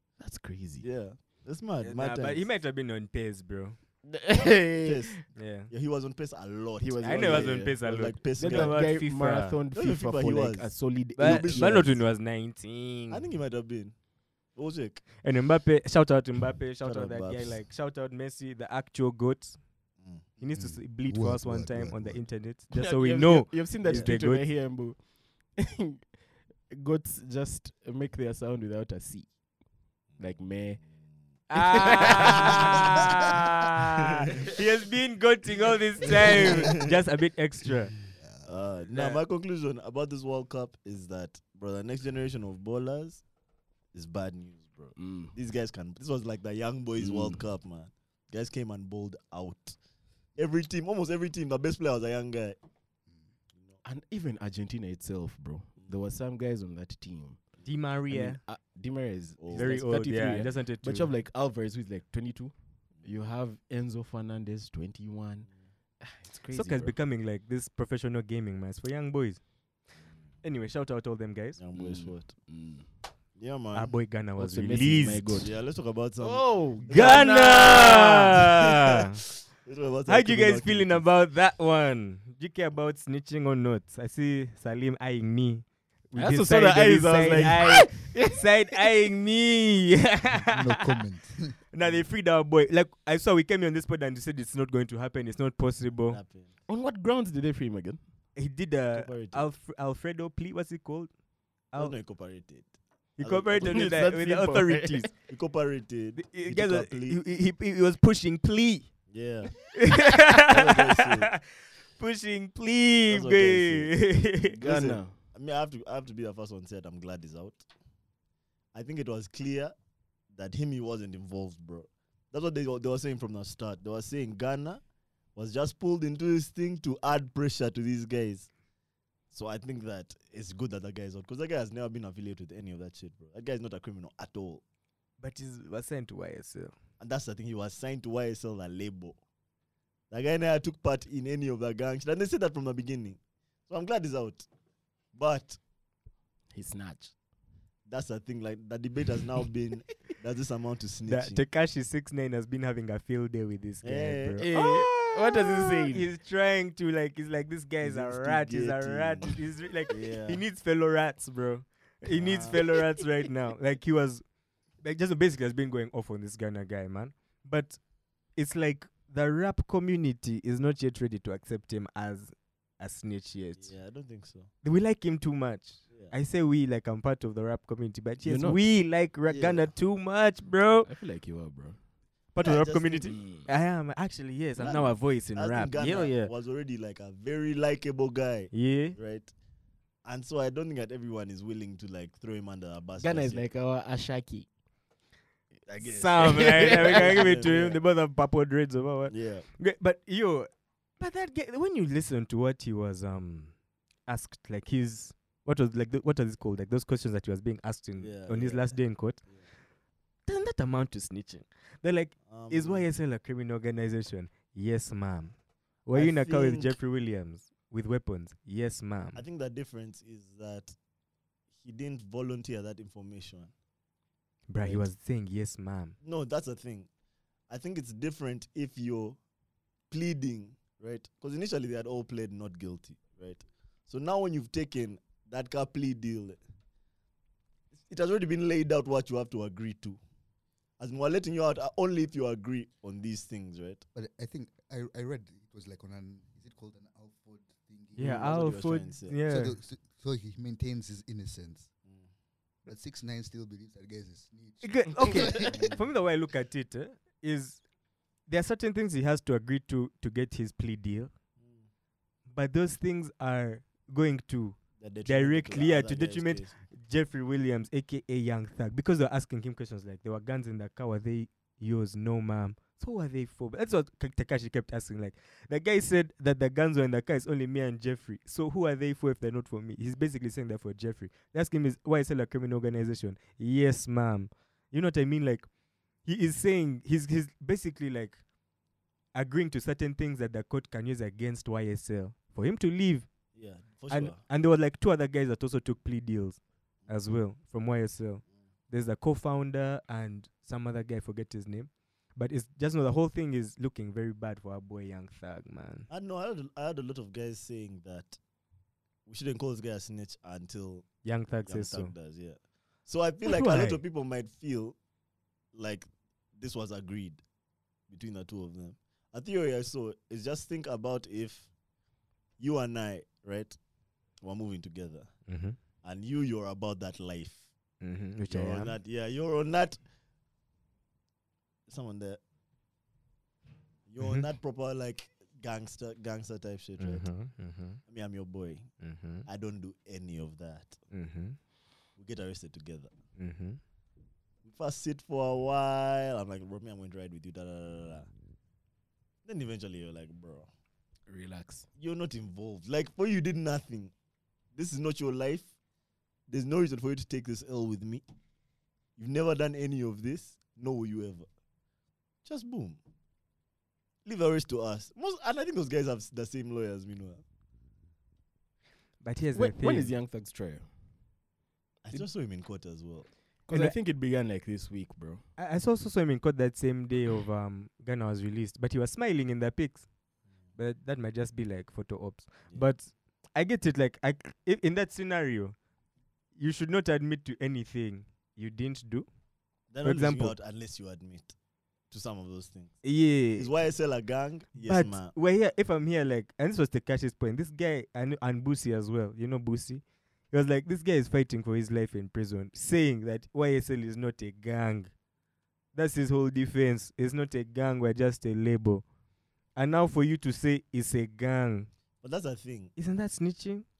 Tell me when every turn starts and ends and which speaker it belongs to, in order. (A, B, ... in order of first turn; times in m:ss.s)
0:00.2-0:00.8 A
0:00.8-0:02.4 B
0:01.8-0:03.8 C
0:04.0-0:05.2 A
0:04.8-0:09.0 B
0:05.3-0:05.7 C
0:06.8-0:07.8 A
0:07.0-0:09.6 C
0:08.3-0:11.9 A
0:09.7-0:12.0 B
0:11.2-0:13.3 C
0:13.1-0:14.0 B
0:14.5-0:15.0 B
0:15.2-0:19.6 C
0:16.8-0:17.6 B
0:20.0-0:20.2 B
0:20.4-0:24.5 C
0:20.4-0:22.3 D
0:22.7-0:29.4 A
0:30.1-0:30.8 A
0:30.1-0:30.9 B
0:31.5-0:38.0 C
0:31.5-0:33.0 A
0:31.8-0:32.4 B
0:36.0-0:36.9 B
0:38.1-0:38.5 D
0:38.4-0:43.2 B
0:43.9-0:49.8 B
0:45.0-0:45.3 A
0:47.0-0:47.4 A
0:50.4-0:52.6 B
0:53.8-0:57.4 A
0:57.6-0:58.4 C
0:58.1-1:06.9 A
0:59.4-0:59.8 B
0:59.5-1:01.1 C
1:06.5-1:09.4 C
1:10.4-1:11.6 C
1:11.6-1:12.5 B
1:11.7-1:12.9 A
1:13.4-1:14.0 B
1:13.7-1:15.5 C
1:14.4-1:15.6 A
1:15.4-1:18.0 B
1:16.2-1:18.4 A
1:16.9-1:19.2 C
1:19.6-1:21.1 B
1:20.1-1:31.0 C
1:26.1-1:28.4 A
1:30.5-1:31.6 D
1:31.7-1:36.2 C
1:36.0-1:36.5 B
1:36.7-1:38.0 A
1:38.4-1:41.1 C
1:38.9-1:39.5 B
1:41.7-1:42.0 C
1:41.8-1:44.1 B
1:43.2-1:45.1 C
1:43.6-1:45.1 A
1:45.2-1:47.2 B
1:46.1-1:49.0 C
1:49.1-1:51.3 B
1:49.7-1:51.4 C
1:52.0-1:54.6 C
1:53.1-1:57.6 B
1:54.5-1:55.2 A
1:58.7-1:59.7 B
2:00.3-2:04.8 B
2:05.3-2:08.5 B
2:09.3-2:14.6 B
2:15.2-2:16.7 C
2:17.0-2:19.2 B
2:20.1-2:24.4 B
2:25.1-2:25.6 B
2:26.5-2:27.1 A
2:27.9-2:31.4 B
2:31.0-2:44.2 C
2:33.8-2:34.4 B
2:34.4-2:36.1 A
2:37.8-2:40.4 B
2:42.1-2:42.6 B
2:44.8-2:47.8 C
2:48.3-2:53.7 C
2:53.6-2:54.5 B
2:54.6-3:00.9 C
2:58.2-2:58.6 A
2:59.3-2:59.7 B
3:00.8-3:01.8 A
3:02.3-3:06.3 C
3:02.4-3:03.2 B
3:03.1-3:03.5 A
3:04.6-3:09.3 B
3:08.5-3:09.0 C
3:10.0-3:13.4 B
3:13.0-3:14.5 A
3:15.6-3:17.8 B
3:15.8-3:23.5 C
3:16.2-3:17.3 A
3:19.1-3:19.5 B
3:24.0-3:29.2 C
3:28.0-3:29.4 B
3:30.2-3:39.2 C
3:32.3-3:32.9 B
3:35.9-3:36.8 B
3:39.1-3:40.7 B
3:41.6-3:43.5 B
3:44.5-3:45.9 C
3:44.6-3:44.9 B
3:46.0-3:46.9 B
3:47.5-3:49.2 B
3:49.9-3:56.4 B
3:57.8-4:00.0 B
4:00.8-4:03.8 B
4:03.9-4:08.4 D
4:08.0-4:09.6 C
4:08.0-4:09.2 B
4:09.2-4:11.7 D
4:12.6-4:15.8 D
4:14.6-4:17.6 C
4:15.5-4:15.8 B
4:18.3-4:21.1 C
4:22.3-4:45.5 C
4:24.8-4:26.6 B
4:46.0-4:48.2 C
4:49.1-4:53.1 C
4:53.3-4:54.2 B
4:53.9-5:05.9 C
5:05.9-5:08.2 B
5:09.0-5:14.8 B
5:11.0-5:11.9 C
5:13.2-5:13.8 C
5:15.5-5:17.2 B
5:17.9-5:21.5 B
5:22.4-5:23.6 B
5:24.2-5:25.2 B
5:25.3-5:25.6 C
5:25.8-5:27.5 B
5:27.8-5:28.8 C
5:28.2-5:29.8 B
5:31.7-5:32.2 B
5:33.9-5:37.2 B
5:34.0-5:34.3 C
5:36.8-5:37.8 C
5:37.8-5:40.8 B
5:38.8-5:39.2 C
5:40.9-5:41.4 C
5:42.0-5:42.9 B
5:43.2-5:43.6 C
5:44.4-5:48.1 B
5:49.2-5:50.5 B
5:51.1-5:51.7 A
5:51.8-5:53.9 B
5:54.5-5:55.5 B
5:56.3-5:58.0 B
5:59.0-6:01.2 B
6:02.2-6:02.8 B
6:04.0-6:07.2 B
6:09.0-6:09.9 C
6:09.3-6:10.7 A
6:11.8-6:13.1 B
6:13.4-6:15.2 A
6:13.5-6:13.8 C
6:15.4-6:19.9 C
6:20.6-6:25.6 C
6:26.4-6:29.1 C
6:29.7-6:31.3 B
6:29.8-6:30.4 C
6:31.9-6:35.1 B
6:32.8-6:33.5 C
6:34.6-6:44.9 C
6:45.7-6:48.8 C
6:49.5-6:51.7 C
6:52.0-6:52.7 B
6:52.8-6:53.6 C